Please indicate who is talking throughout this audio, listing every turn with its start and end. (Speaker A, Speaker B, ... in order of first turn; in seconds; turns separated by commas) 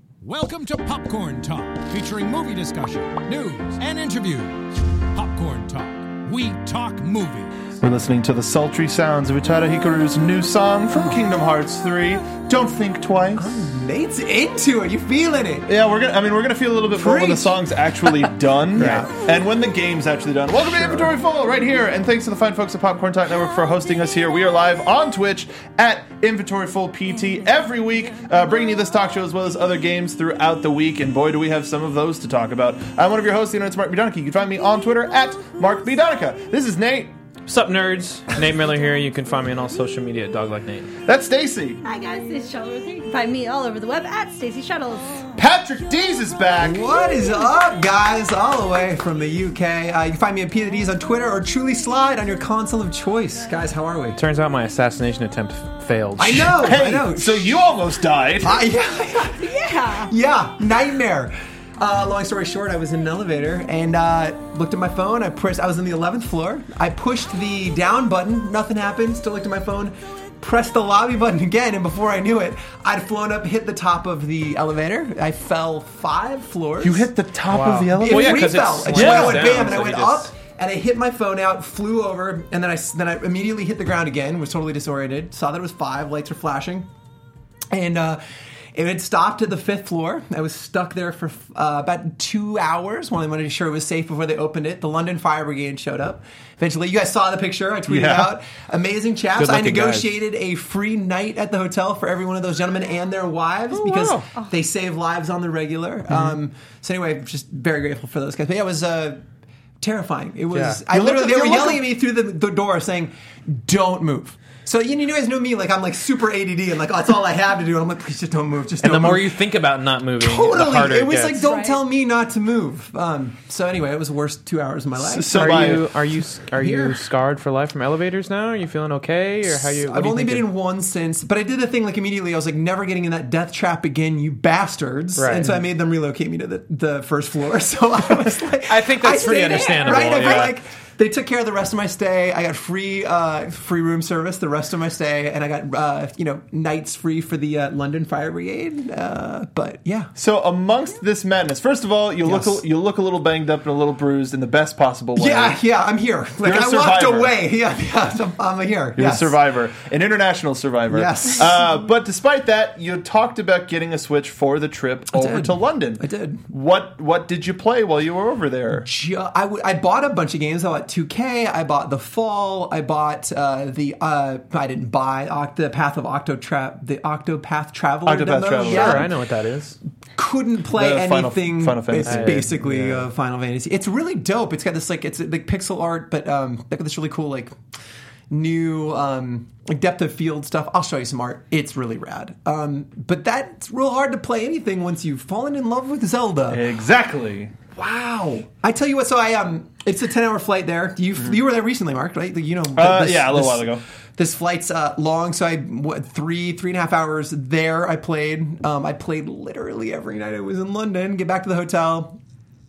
Speaker A: 0.2-7.7, Speaker B: 7.8-13.7, Speaker C: 10.9-11.3, Speaker C: 13.4-15.7, Speaker B: 15.7-37.1, Speaker C: 16.9-19.2, Speaker D: 18.8-19.1, Speaker C: 20.7-21.1, Speaker D: 37.5-40.9, Speaker B: 41.1-41.8, Speaker E: 41.8-45.3, Speaker B: 45.4-46.9, Speaker C: 46.6-54.2, Speaker D: 54.2-56.7, Speaker C: 56.2-57.7, Speaker B: 56.6-58.6, Speaker C: 58.4-59.4, Speaker E: 59.2-60.1, Speaker C: 60.0-77.1, Speaker B: 76.8-79.8, Speaker D: 77.5-80.3, Speaker C: 77.9-86.9, Speaker C: 87.7-88.2, Speaker C: 88.7-109.2, Speaker B: 97.9-98.4, Speaker D: 99.4-100.2, Speaker D: 103.7-104.3, Speaker C: 109.8-119.4, Speaker D: 110.5-110.8, Speaker B: 110.9-111.8, Speaker D: 118.8-121.5, Speaker C: 120.2-125.9, Speaker E: 121.4-121.8, Speaker B: 125.0-125.8, Speaker D: 125.3-130.5, Speaker C: 126.6-127.0, Speaker C: 129.5-150.1, Speaker D: 135.2-135.6, Speaker D: 138.6-140.6, Speaker E: 139.1-140.5, Speaker B: 150.2-155.6, Speaker C: 152.2-152.6, Speaker C: 155.2-159.4, Speaker B: 156.4-157.3, Speaker B: 159.0-168.9, Speaker C: 160.9-161.6, Speaker C: 165.1-166.4, Speaker C: 168.8-179.1, Speaker B: 178.1-179.1, Speaker D: 178.6-179.8, Speaker C: 180.2-187.5, Speaker B: 180.7-182.4, Speaker D: 182.0-183.1, Speaker C: 188.3-196.7, Speaker B: 196.5-197.6, Speaker C: 197.8-212.2, Speaker B: 202.7-203.8